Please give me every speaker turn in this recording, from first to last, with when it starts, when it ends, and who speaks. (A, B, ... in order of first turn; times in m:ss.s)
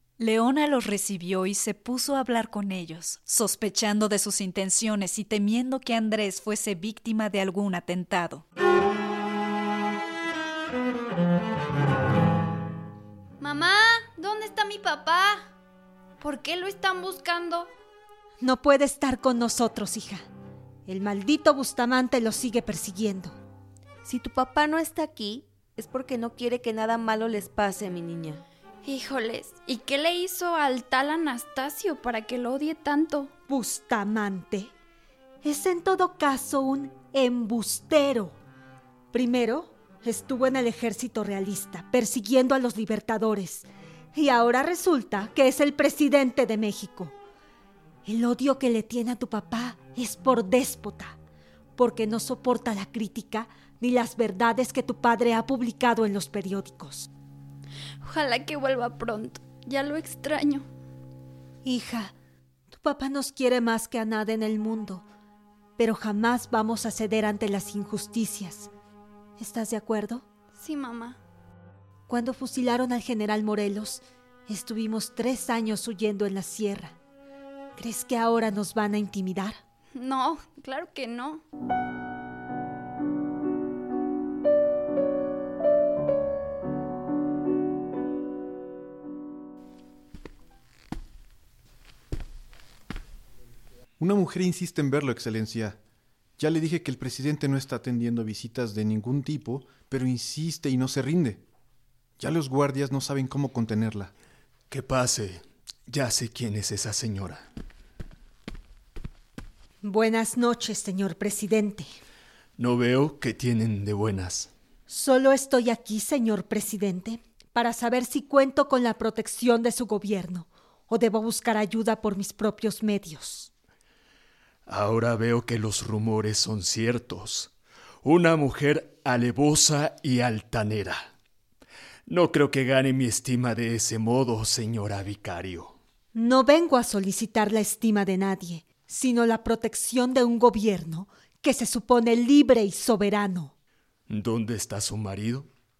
0:00.2-0:08.4 A
0:13.4-0:15.5 B
0:16.2-0:17.7 B
0:18.4-0:20.3 C
0:20.9-0:23.4 C
0:24.0-0:28.4 D
0:28.8-0:33.3 B
0:33.5-0:34.7 C
0:35.4-0:38.4 C
0:39.1-0:47.2 C
0:48.1-0:51.2 C
0:51.8-0:57.1 C
0:58.0-1:00.7 B
1:01.6-1:02.1 C
1:02.7-1:05.0 C
1:05.8-1:08.7 C
1:09.4-1:10.3 C
1:10.5-1:11.2 B
1:12.1-1:17.0 C
1:17.8-1:19.6 C
1:20.0-1:21.4 B
1:34.0-1:35.8 E
1:36.4-1:41.4 E
1:42.2-1:44.1 E
1:44.7-1:47.4 F
1:49.8-1:51.9 C
1:52.6-1:54.5 F
1:54.9-2:03.5 C
2:04.7-2:07.5 F
2:08.0-2:11.1 F
2:12.1-2:15.8 F
2:16.1-2:23.5 C
2:24.1-2:25.5 F